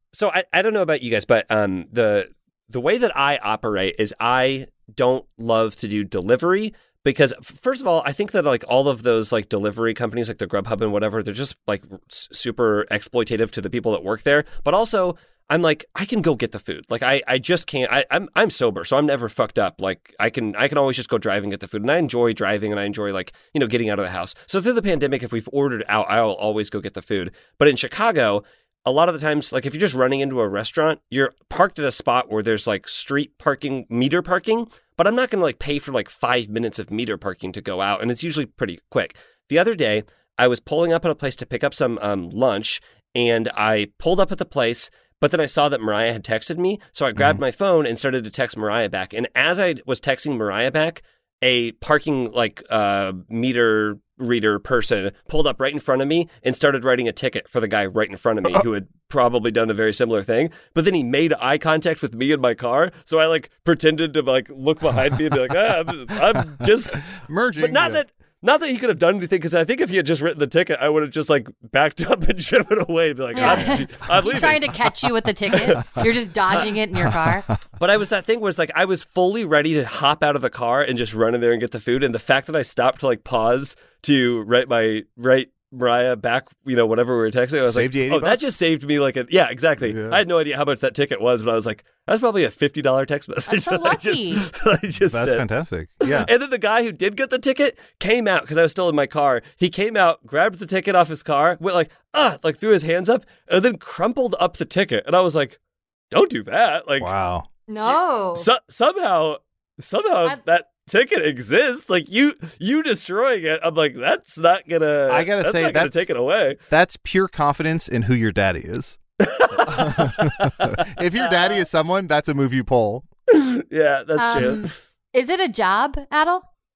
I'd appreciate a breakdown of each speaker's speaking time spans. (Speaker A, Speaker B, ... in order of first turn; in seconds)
Speaker A: 0.1-74.8, 75.5-75.8, 77.8-95.5, 96.0-105.6, 106.1-107.1, 107.9-116.6, 119.2-121.6, 123.3-124.7
Speaker B: 47.2-47.4, 66.6-68.0, 73.4-73.8, 77.0-77.3, 87.7-88.5, 89.8-90.2, 95.1-96.3, 107.0-107.5, 115.1-116.1, 116.7-119.0, 119.5-123.1
Speaker C: 73.3-77.5, 93.5-94.5, 107.7-108.5, 124.2-126.5